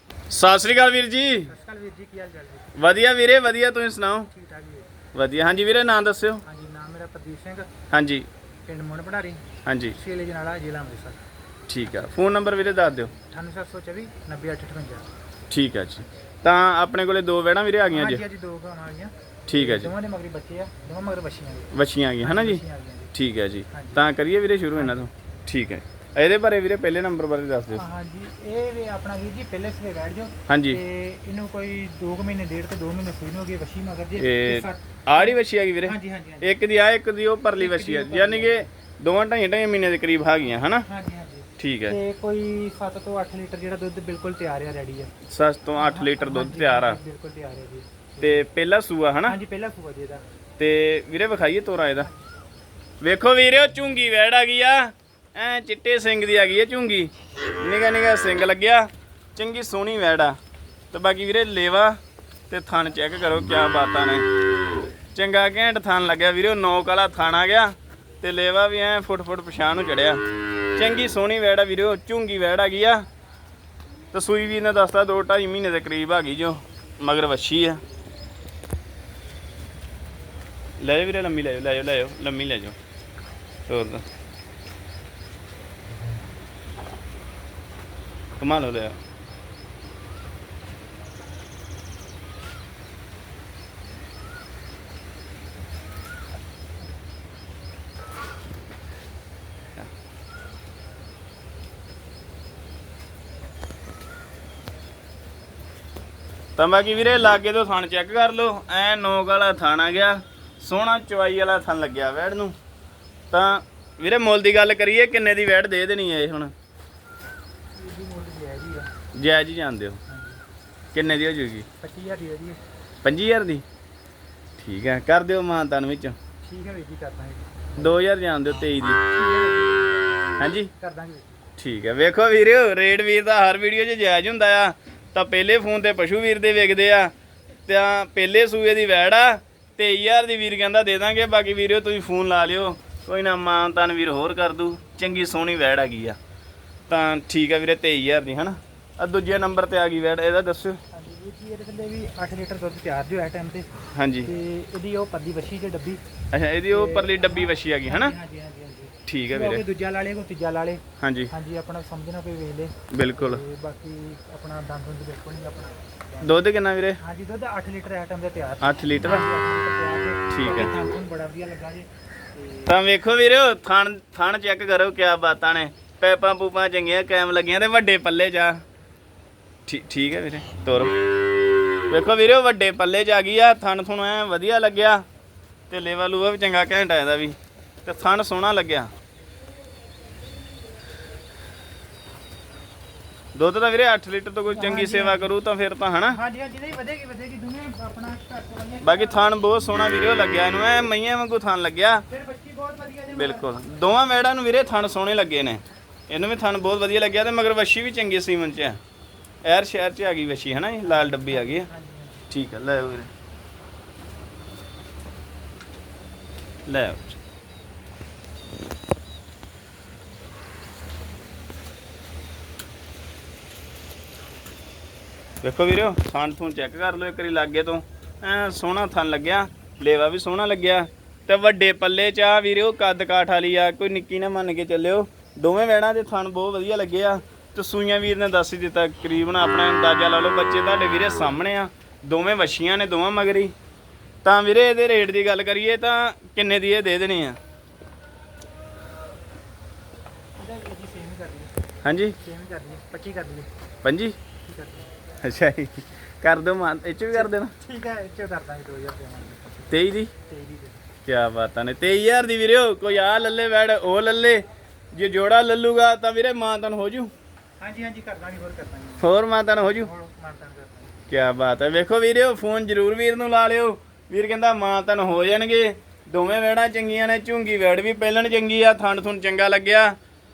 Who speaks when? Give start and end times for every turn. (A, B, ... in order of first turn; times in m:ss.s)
0:00.3-0:01.5 A
0:01.5-0:02.8 B
0:02.8-0:04.3 A
0:04.3-0:05.0 B
0:05.1-0:06.4 A
0:06.4-0:07.7 B
0:07.9-0:08.2 A
0:08.6-0:09.4 B
0:09.6-0:10.0 A
0:09.9-0:11.2 B
0:11.7-0:13.1 A
0:13.3-0:15.1 B
0:15.5-0:18.2 A
0:17.9-0:23.1 B
0:19.5-0:19.9 A
0:21.7-0:22.6 A
0:23.1-0:27.8 A
0:23.7-0:24.0 B
0:24.8-0:25.1 B
0:27.7-0:36.6 B
0:30.5-0:30.8 A
0:34.2-0:40.8 A
0:37.5-0:38.7 B
0:40.8-0:45.1 B
0:41.6-0:42.0 A
0:45.3-0:47.0 A
0:45.8-0:48.4 B
0:48.2-0:49.4 A
0:49.2-0:50.2 B
0:50.6-0:52.1 A
0:53.0-1:00.4 A
1:00.9-1:02.0 A
1:02.5-1:04.3 A
1:05.1-1:10.2 A
1:10.8-1:13.0 A
1:14.1-1:17.8 A
1:20.8-1:22.8 A
1:23.7-1:24.0 A
1:28.4-1:29.0 A
1:46.6-1:52.6 A
1:53.3-1:56.5 A
1:57.7-1:58.9 B
1:59.1-2:00.0 A
2:00.1-2:00.4 B
2:00.9-2:01.6 A
2:01.8-2:02.6 B
2:03.0-2:03.6 A
2:04.6-2:06.2 A
2:06.4-2:08.0 B
2:07.8-2:09.0 A
2:09.0-2:11.4 B
2:10.4-2:10.7 A
2:11.6-2:17.1 A
2:17.7-2:26.2 A
2:26.9-2:30.8 A
2:30.9-2:33.7 B
2:33.9-2:34.3 A
2:34.2-2:36.0 B
2:36.3-2:38.1 A
2:36.7-2:46.4 B
2:39.1-2:39.6 A
2:41.0-2:41.3 A
2:42.9-2:43.4 A
2:46.2-2:47.0 A
2:47.0-2:52.7 B
2:48.6-2:49.2 A
2:50.3-2:50.7 A
2:52.6-2:58.6 A
2:59.7-3:00.9 A
3:01.9-3:05.0 A
3:05.7-3:08.9 A
3:13.3-3:16.2 A
3:14.5-3:15.3 B
3:16.1-3:19.3 B
3:18.8-3:22.0 A
3:22.1-3:23.6 B
3:23.1-3:28.8 A
3:29.4-3:31.7 A
3:30.8-3:32.3 B
3:32.3-3:33.1 A
3:36.6-3:37.2 A
3:45.4-4:03.5 A
4:04.2-4:07.4 A
4:10.4-4:11.5 B
4:11.8-4:12.2 A
4:12.2-4:13.5 B
4:13.8-4:14.2 A
4:14.4-4:14.9 B
4:15.2-4:17.5 A
4:17.1-4:19.7 B
4:19.7-4:20.1 A
4:20.3-4:20.8 B
4:21.0-4:27.1 A
4:27.6-4:29.1 B
4:29.0-4:29.9 A
4:29.6-4:31.0 B
4:31.1-4:40.0 A